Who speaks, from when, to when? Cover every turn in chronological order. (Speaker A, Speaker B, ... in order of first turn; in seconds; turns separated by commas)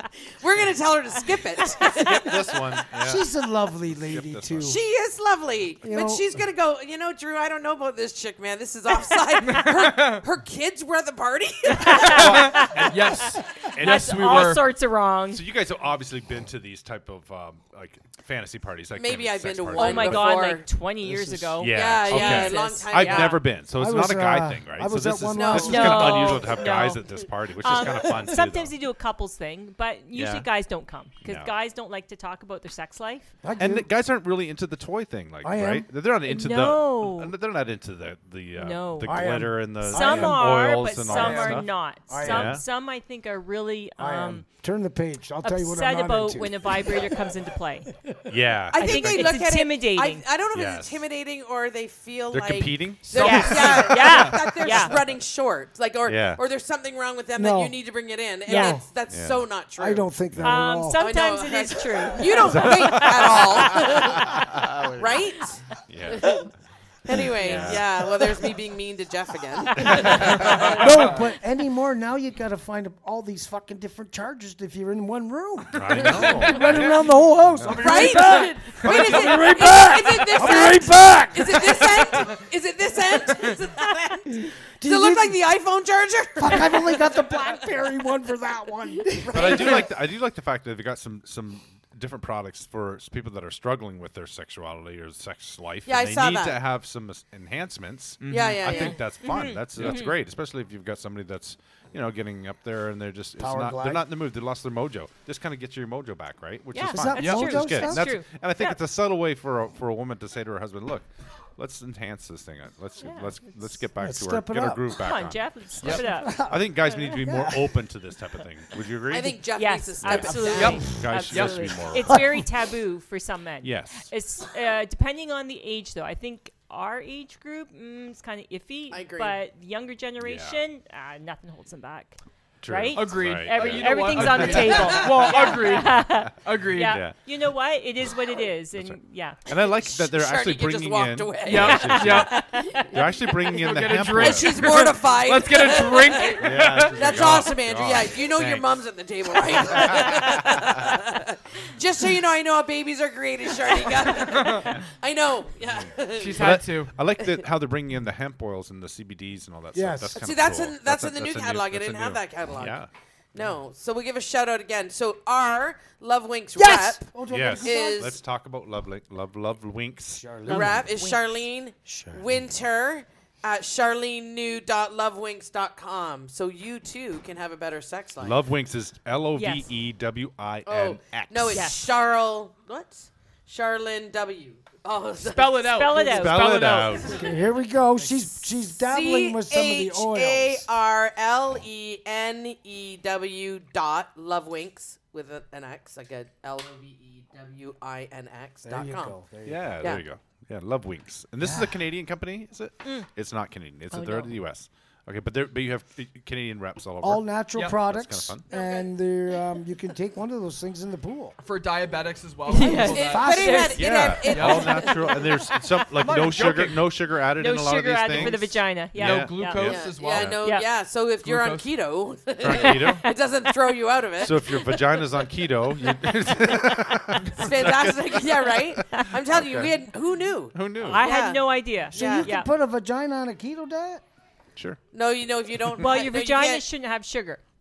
Speaker A: 0.3-2.8, Speaker B: 1.8-3.3, Speaker C: 2.9-4.8, Speaker B: 3.8-4.8, Speaker A: 4.6-12.4, Speaker C: 5.8-6.4, Speaker D: 9.4-10.2, Speaker E: 11.7-15.4, Speaker B: 12.0-14.6, Speaker D: 12.2-14.6, Speaker B: 15.3-20.3, Speaker A: 18.9-20.6, Speaker E: 19.7-23.4, Speaker C: 21.1-21.5, Speaker B: 21.5-28.7, Speaker A: 21.7-23.4, Speaker C: 23.7-26.5, Speaker A: 25.3-26.3, Speaker E: 25.5-33.4, Speaker B: 30.1-30.5, Speaker B: 31.2-31.5, Speaker C: 33.4-33.9, Speaker B: 33.6-42.6, Speaker C: 35.4-35.9, Speaker E: 36.2-37.3, Speaker E: 38.5-44.5, Speaker C: 39.0-40.5, Speaker C: 41.0-42.6, Speaker C: 44.0-47.3, Speaker E: 45.4-47.9, Speaker B: 48.3-49.4, Speaker A: 48.7-60.1, Speaker E: 48.7-50.2, Speaker B: 50.5-51.0, Speaker B: 52.3-54.0, Speaker D: 53.1-54.5, Speaker E: 53.1-55.0, Speaker B: 56.0-56.4, Speaker C: 57.4-57.7, Speaker E: 58.5-58.8, Speaker C: 58.5-58.8, Speaker B: 59.1-59.5, Speaker C: 59.8-61.1, Speaker B: 60.3-60.6, Speaker E: 60.4-63.1, Speaker A: 61.0-66.5, Speaker B: 62.3-65.2, Speaker B: 65.9-66.5, Speaker A: 67.0-70.9, Speaker B: 67.3-67.8, Speaker E: 67.4-67.8, Speaker B: 69.8-70.8, Speaker C: 69.8-82.3, Speaker B: 75.7-79.8, Speaker A: 77.7-87.2, Speaker C: 84.5-85.4, Speaker C: 86.4-89.9, Speaker A: 89.2-89.8, Speaker B: 89.3-119.5, Speaker A: 95.8-96.6, Speaker D: 98.2-98.9, Speaker A: 98.3-99.0, Speaker E: 98.7-100.1, Speaker C: 103.4-104.1, Speaker E: 106.7-108.8, Speaker C: 106.9-108.1, Speaker D: 107.2-107.5, Speaker E: 113.0-113.8, Speaker C: 114.0-114.9, Speaker E: 114.9-117.1, Speaker D: 115.8-116.1, Speaker C: 116.0-117.8, Speaker A: 119.1-120.8, Speaker E: 119.5-139.4, Speaker B: 120.0-122.2, Speaker D: 120.5-121.7, Speaker B: 123.6-124.1, Speaker A: 128.9-129.3, Speaker B: 130.2-130.6, Speaker B: 132.6-136.3, Speaker D: 132.9-137.0, Speaker B: 136.8-137.1, Speaker B: 138.8-144.8, Speaker A: 139.5-142.0, Speaker D: 141.4-142.3, Speaker E: 141.6-143.5, Speaker D: 143.5-147.5, Speaker A: 144.1-156.6, Speaker B: 146.4-148.7, Speaker B: 149.4-150.9, Speaker D: 154.2-154.8, Speaker D: 156.1-156.9, Speaker B: 156.3-162.9, Speaker C: 159.7-160.2, Speaker A: 160.2-162.8, Speaker A: 163.3-168.2, Speaker C: 166.5-168.1, Speaker B: 167.3-170.8, Speaker C: 170.1-170.9, Speaker A: 170.5-178.4, Speaker E: 170.8-171.2, Speaker C: 171.8-172.2, Speaker B: 178.2-181.7, Speaker E: 179.3-179.7, Speaker A: 180.7-186.2, Speaker E: 181.5-181.9, Speaker E: 185.2-187.3, Speaker D: 185.4-186.7, Speaker B: 186.0-187.2, Speaker C: 187.0-190.7, Speaker A: 188.6-199.2, Speaker C: 198.6-199.8, Speaker B: 199.4-208.4, Speaker C: 201.4-201.8, Speaker E: 203.9-204.3, Speaker C: 207.0-211.3, Speaker D: 207.5-207.8, Speaker D: 211.4-213.6, Speaker E: 212.5-214.2, Speaker C: 212.5-213.9, Speaker A: 212.9-215.4, Speaker B: 213.8-220.4, Speaker D: 214.3-214.8, Speaker D: 216.0-216.8, Speaker E: 217.4-219.7, Speaker D: 218.9-220.4, Speaker A: 219.6-225.0, Speaker E: 220.2-220.7, Speaker D: 221.2-221.7, Speaker B: 222.4-223.1, Speaker E: 222.5-223.1, Speaker B: 224.2-229.7, Speaker A: 227.3-232.3, Speaker B: 230.5-231.0, Speaker E: 230.8-232.5, Speaker C: 231.9-234.0, Speaker A: 234.9-236.6, Speaker E: 235.8-237.4